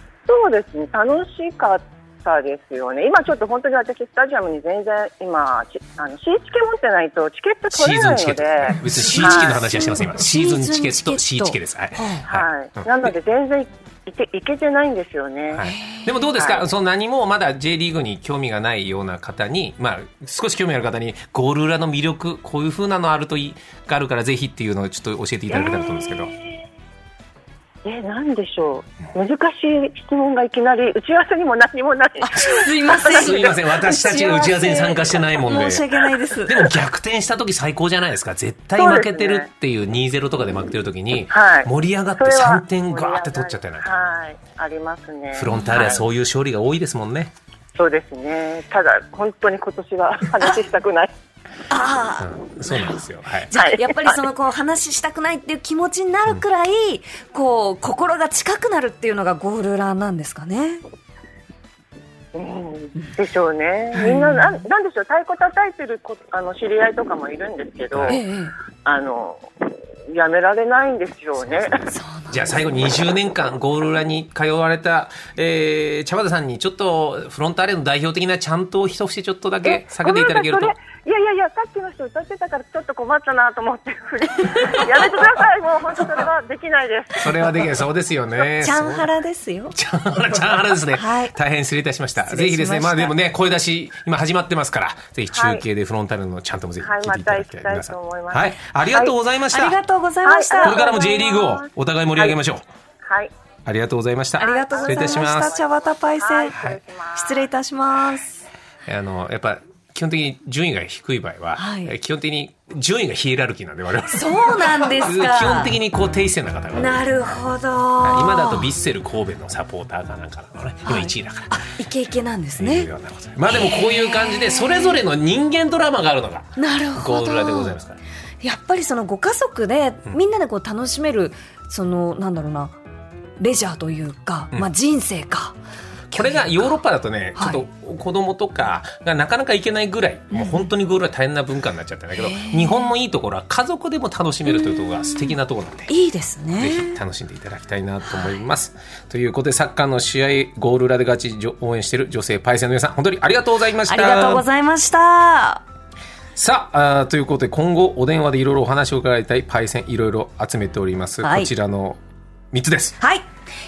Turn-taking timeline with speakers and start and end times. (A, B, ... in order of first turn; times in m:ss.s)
0:00.2-0:09.6 A
0:07.7-0:13.1 B
0:09.0-0:12.2 C
0:12.2-0:15.7 A
0:15.5-0:26.3 B
0:15.6-0:16.2 C
0:16.3-0:16.6 A
0:25.5-0:26.6 A
0:27.8-0:33.5 A
0:32.2-0:36.7 C
0:33.0-0:35.8 B
0:36.4-0:43.9 B
0:38.8-0:39.5 A
0:41.3-0:46.0 A
0:45.3-0:47.3 B
0:45.5-0:45.9 C
0:47.7-0:51.1 A
0:51.7-0:53.0 C
0:52.2-0:53.5 B
0:53.5-1:00.8 C
0:53.5-0:54.2 A
1:02.3-1:08.2 A
1:04.0-1:04.5 C
1:07.9-1:08.2 B
1:08.1-1:08.5 C
1:08.8-1:11.9 A
1:11.4-1:20.7 B
1:11.9-1:12.5 C
1:19.6-1:27.6 A
1:24.5-1:24.8 C
1:27.2-1:29.1 B
1:28.6-1:29.8 C
1:29.7-1:39.8 B
1:30.9-1:31.3 C
1:32.2-1:33.1 C
1:35.3-1:35.6 A
1:36.8-1:39.2 A
1:39.5-1:40.8 C
1:40.2-1:42.4 A
1:40.6-1:42.6 B
1:43.0-1:43.3 A
1:43.6-1:45.5 B
1:44.4-1:46.6 C
1:44.4-1:47.5 A
1:46.5-1:46.8 B
1:47.1-1:48.4 C
1:48.8-1:57.3 B
1:51.6-1:51.9 C
1:54.0-1:55.8 C
1:56.7-1:58.7 C
1:58.0-2:01.6 B
2:00.8-2:02.9 C
2:02.6-2:08.0 B
2:03.5-2:05.0 C
2:06.6-2:07.8 C
2:08.4-2:12.8 C
2:13.4-2:15.6 C
2:16.1-2:25.9 B
2:16.1-2:16.7 C
2:17.4-2:17.6 C
2:20.3-2:20.7 C
2:22.2-2:22.9 C
2:24.5-2:25.3 C
2:25.9-2:27.0 C
2:26.6-2:34.4 B
2:33.9-2:35.6 C
2:36.4-2:42.0 B
2:41.2-2:41.5 C
2:42.5-2:43.0 B
2:43.0-2:43.3 C